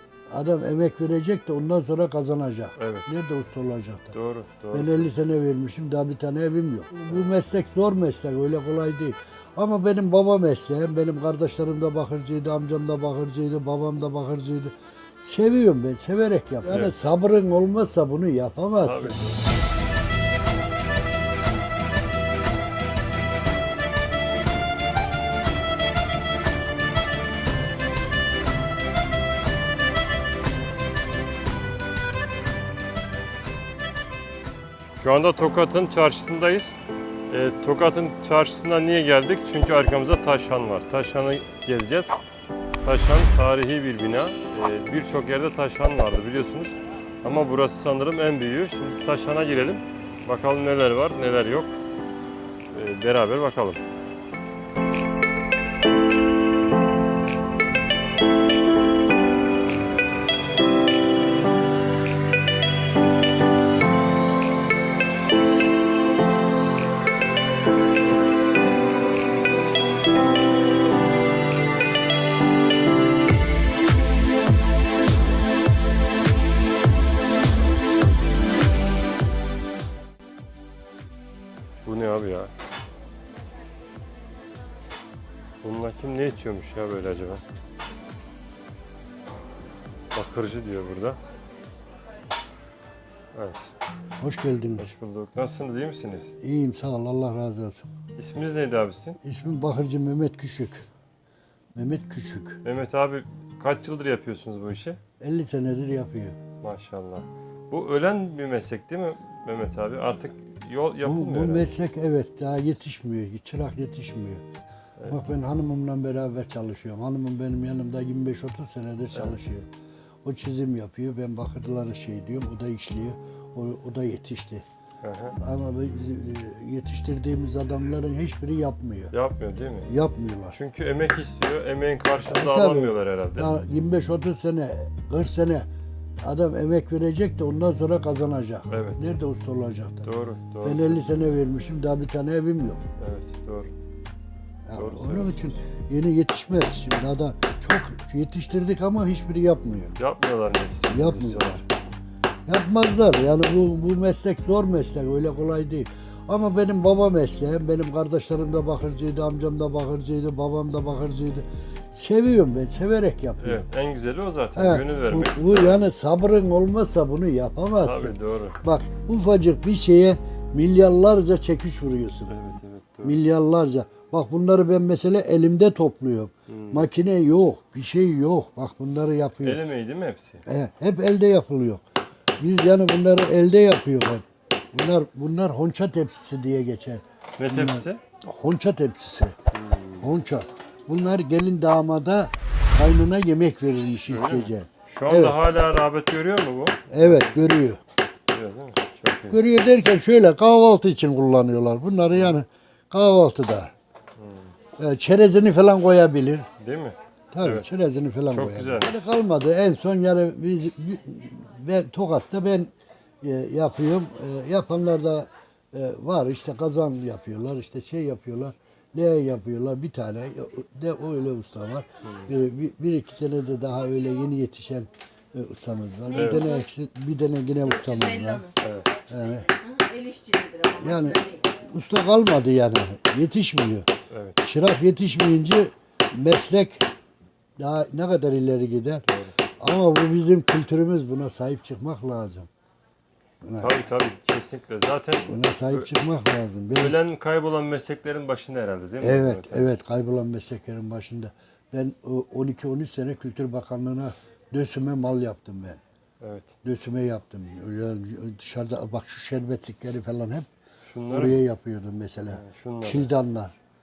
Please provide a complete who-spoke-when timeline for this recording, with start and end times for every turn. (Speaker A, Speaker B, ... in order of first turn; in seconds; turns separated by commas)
Speaker A: 0.3-4.2, Speaker B: 2.8-3.1, Speaker B: 4.1-5.1, Speaker A: 4.7-19.4, Speaker B: 16.7-17.0, Speaker B: 18.8-19.4, Speaker B: 35.0-42.2, Speaker B: 42.8-51.7, Speaker B: 52.7-53.8, Speaker B: 81.8-82.5, Speaker B: 85.6-87.4, Speaker B: 90.1-91.2, Speaker B: 93.3-93.7, Speaker A: 94.2-94.9, Speaker B: 94.8-96.4, Speaker A: 96.4-97.9, Speaker B: 98.2-99.2, Speaker A: 99.2-100.9, Speaker A: 101.8-102.6, Speaker B: 102.6-105.0, Speaker A: 105.2-106.4, Speaker B: 106.6-111.8, Speaker A: 111.0-114.4, Speaker A: 115.1-119.7, Speaker A: 120.2-124.6, Speaker B: 125.0-125.4, Speaker A: 125.4-129.1, Speaker B: 129.1-129.9, Speaker A: 129.9-130.6, Speaker B: 130.5-133.5, Speaker A: 132.2-135.7, Speaker A: 136.2-140.1, Speaker B: 138.7-139.2, Speaker B: 140.0-141.1, Speaker A: 140.6-142.8, Speaker B: 143.0-143.7, Speaker A: 144.7-150.0, Speaker B: 144.7-145.6, Speaker B: 150.0-151.7, Speaker A: 150.9-151.6, Speaker A: 152.5-163.6, Speaker B: 163.4-165.9, Speaker A: 164.6-172.4, Speaker B: 167.8-168.6, Speaker B: 172.3-173.2, Speaker A: 173.0-179.6, Speaker B: 176.5-176.9, Speaker B: 179.4-180.4, Speaker A: 180.5-181.8, Speaker A: 182.4-189.4, Speaker B: 187.4-188.0, Speaker B: 189.5-190.1, Speaker A: 190.0-195.4, Speaker B: 194.1-197.5, Speaker A: 196.9-197.8, Speaker B: 198.3-199.4, Speaker A: 199.3-203.7, Speaker B: 202.1-202.4, Speaker B: 204.2-204.6, Speaker A: 204.8-206.5, Speaker B: 206.6-207.7, Speaker A: 207.3-228.5, Speaker B: 208.3-209.0, Speaker B: 222.0-222.3, Speaker B: 226.2-226.6, Speaker C: 227.8-228.5, Speaker B: 228.6-229.0, Speaker A: 229.0-229.5, Speaker C: 229.5-231.4, Speaker A: 230.8-233.9, Speaker B: 234.1-234.4, Speaker A: 234.4-236.9, Speaker A: 237.6-239.1, Speaker B: 239.1-239.3, Speaker A: 239.6-242.5, Speaker A: 243.4-243.8, Speaker B: 243.6-245.9, Speaker A: 245.3-246.9, Speaker B: 246.7-249.7, Speaker A: 249.0-255.8, Speaker B: 256.2-256.5, Speaker A: 256.6-260.5, Speaker B: 260.9-261.4, Speaker A: 261.1-263.6, Speaker B: 262.3-263.1